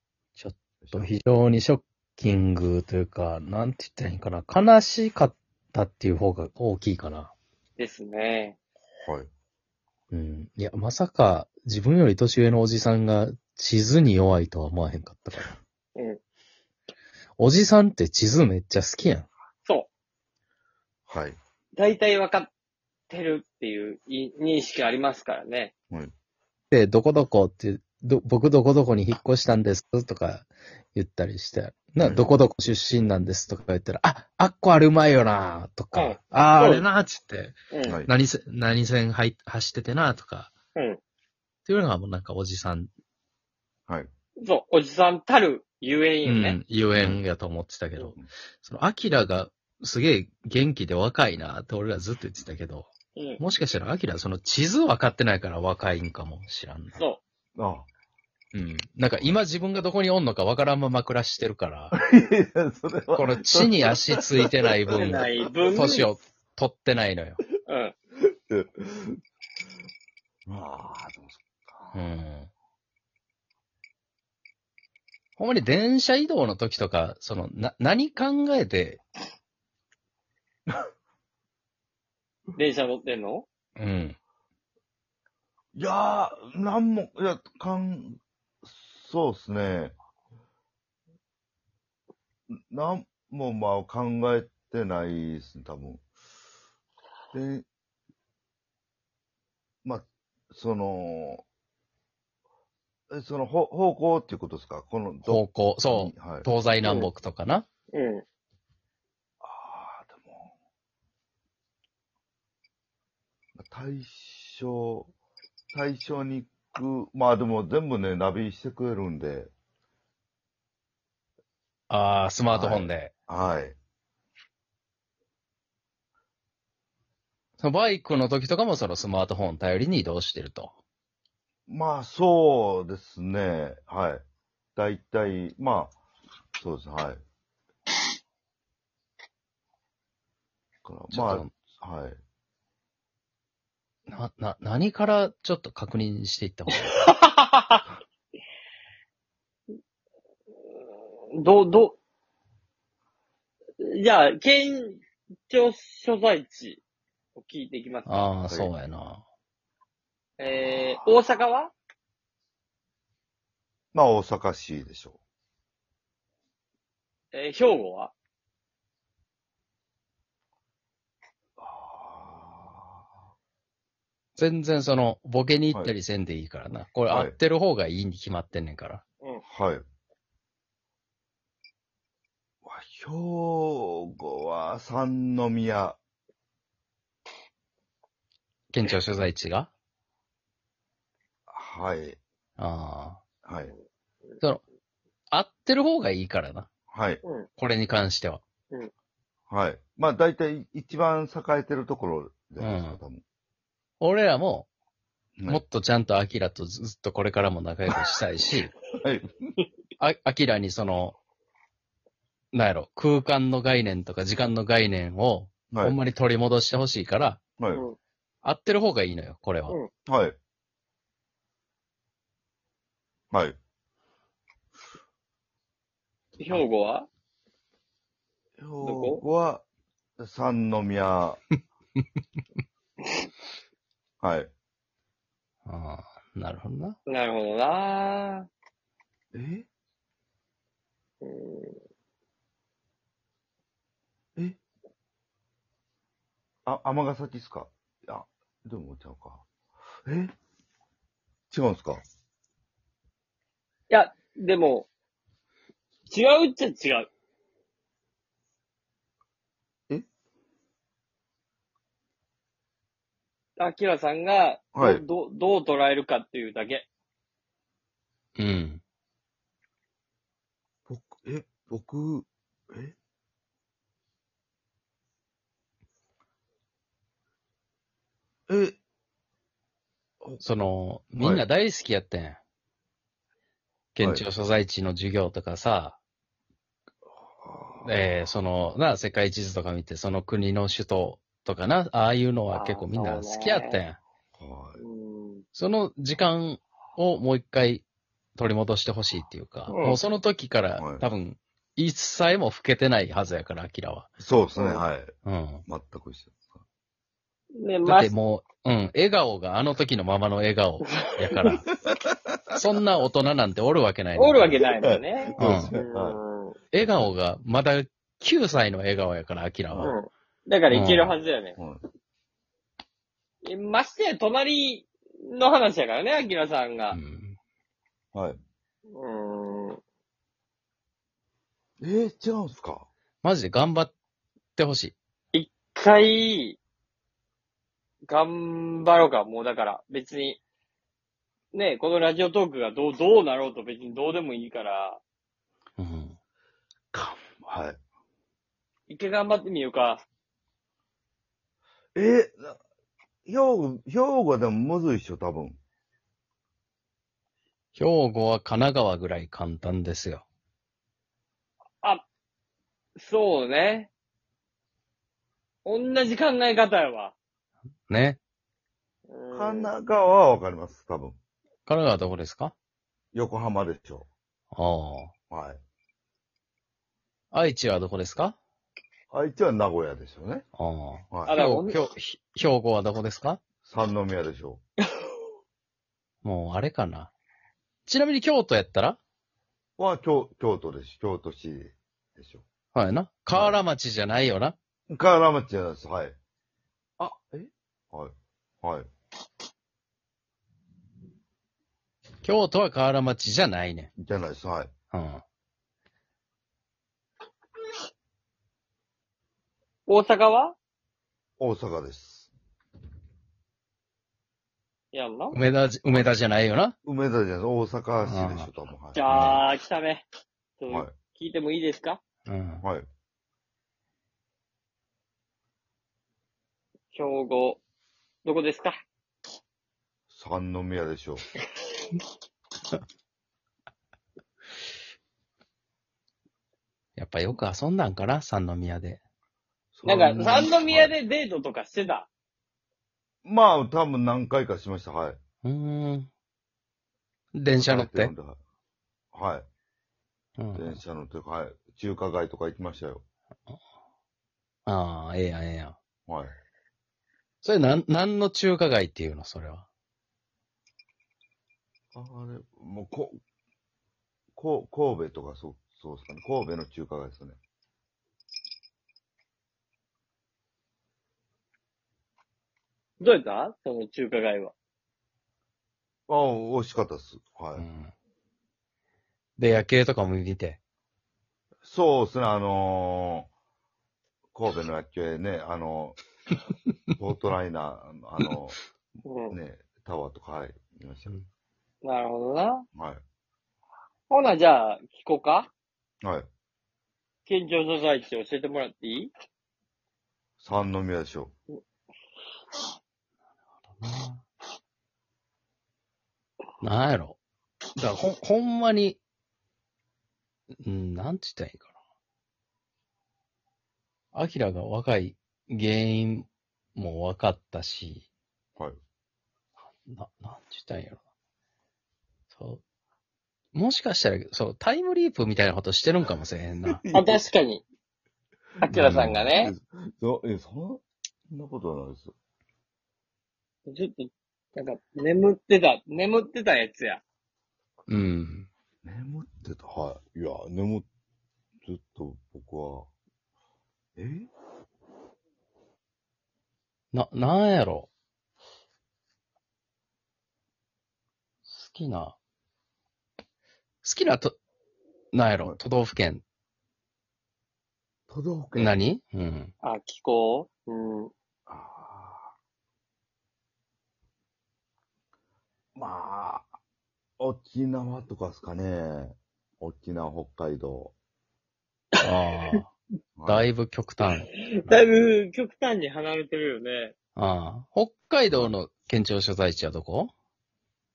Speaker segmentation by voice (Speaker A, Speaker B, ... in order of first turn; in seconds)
Speaker A: 0.3-7.3, 10.1-15.6, 17.4-19.3, 26.7-40.5, 41.7-42.9, 46.2-57.0, 58.5-61.9, 63.1-67.4, 71.9-72.5, 75.4-79.0, 83.8-84.2, 105.2-107.7, 121.9-123.1, 127.6-130.7, 141.1-141.5, 144.1-147.1, 158.1-159.2, 174.4-179.0, 188.7-189.7, 192.6-193.2, 195.3-196.7, 197.6-198.4, 202.6-203.0, 204.0-204.7, 205.5-208.7, 210.0-211.2, 212.5-217.4, 218.4-219.8, 235.7-237.0, 268.4-268.8, 280.4-282.4, 283.9-286.0, 287.8-294.0, 295.5-297.8, 298.4-304.1, 305.2-305.6, 307.8-311.7, 312.5-314.6, 315.4-315.7, 316.7-319.9, 320.7-321.1, 326.9-327.4, 333.2-333.9, 334.6-334.9, 345.8-346.2, 357.8-360.2, 367.9-368.2, 371.7-372.5, 374.5-375.1, 377.3-378.4, 380.6-383.4, 386.2-387.1, 387.9-389.0, 392.7-394.5, 402.2-403.9, 404.9-405.2, 415.3-416.8, 418.0-418.5, 419.1-419.4, 422.2-422.6, 437.0-439.0, 445.4-446.1, 447.3-448.1, 450.4-450.8, 454.6-455.8, 457.4-459.6, 477.6-477.9, 479.4-480.6, 503.7-504.2, 506.6-507.2, 507.8-509.0, 510.6-511.7, 514.1-518.1, 519.9-521.0, 522.3-522.6, 523.5-526.8, 528.7-529.2, 537.9-538.5, 546.9-547.9, 551.5-552.2, 553.8-554.4, 555.1-556.2, 558.6-559.5, 572.0-572.7, 573.2-574.3, 577.2-580.1
Speaker B: 0.8-1.1, 21.1-21.4, 32.0-32.3, 46.9-47.2, 57.5-57.9, 62.1-66.0, 68.2-69.2, 70.5-72.0, 85.7-89.9, 92.7-96.0, 97.3-97.6, 99.8-101.4, 103.1-107.1, 109.4-110.5, 113.5-115.1, 115.7-119.5, 122.5-123.8, 131.7-134.2, 134.8-136.0, 136.6-137.2, 140.8-142.2, 160.5-161.1, 163.9-165.2, 171.6-173.0, 177.1-177.3, 179.5-179.8, 182.6-186.0, 191.5-192.2, 193.4-193.7, 196.9-197.2, 199.5-203.2, 205.4-205.6, 209.0-209.3, 215.7-216.0, 217.6-217.8, 220.1-220.4, 228.6-229.7, 230.2-231.4, 234.2-234.5, 239.3-239.7, 246.7-249.5, 250.1-250.3, 251.5-252.0, 264.7-265.0, 270.9-272.9, 278.5-278.8, 281.2-281.4, 287.4-288.1, 294.4-294.8, 300.8-301.1, 304.2-306.6, 314.6-316.2, 316.8-317.1, 321.6-321.8, 331.8-332.9, 346.9-347.8, 351.9-352.6, 353.2-355.6, 369.3-371.2, 373.1-374.1, 375.3-375.6, 379.1-380.4, 381.1-381.4, 383.6-384.6, 389.8-392.4, 393.3-393.6, 394.9-396.1, 397.0-398.9, 404.0-404.7, 411.4-412.3, 415.9-416.1, 416.8-419.0, 430.1-431.2, 439.7-440.9, 443.2-445.2, 447.6-448.4, 449.1-449.5, 450.5-453.0, 456.1-456.3, 461.9-463.2, 464.3-467.4, 476.1-477.6, 481.6-483.3, 484.3-486.0, 487.0-488.6, 489.3-491.2, 492.8-493.0, 500.4-501.3, 526.6-527.2, 529.3-532.1, 538.8-540.9, 541.6-542.9, 544.0-544.3, 558.1-558.8, 561.5-562.3, 565.8-566.5, 567.2-570.9, 573.2-573.5
Speaker C: 7.8-8.6, 21.8-22.5, 23.1-25.7, 35.9-36.9, 37.7-38.0, 44.4-46.6, 53.2-53.4, 57.0-57.2, 65.0-66.1, 67.7-67.9, 82.5-83.5, 107.9-108.2, 147.1-147.8, 151.3-152.0, 153.8-156.8, 157.4-158.3, 160.4-161.7, 167.3-168.1, 197.2-197.5, 226.4-227.1, 228.8-229.2, 237.1-238.5, 241.2-241.8, 253.9-254.9, 256.1-257.1, 263.6-266.9, 292.5-293.8, 294.8-295.4, 299.7-300.0, 304.5-304.8, 307.6-308.1, 314.2-316.5, 319.8-321.6, 323.4-327.0, 328.9-329.8, 335.3-336.6, 338.1-340.4, 341.5-345.0, 348.9-350.0, 363.0-363.9, 365.6-367.1, 369.1-369.7, 381.2-381.8, 409.9-410.5, 414.9-415.4, 418.9-420.0, 420.6-422.0, 426.9-427.6, 428.2-428.8, 439.8-442.1, 473.0-474.5, 489.0-489.4, 491.8-492.6, 494.1-495.5, 497.2-499.1, 526.9-527.6, 528.6-529.5, 533.7-537.0, 559.6-561.1, 574.4-576.9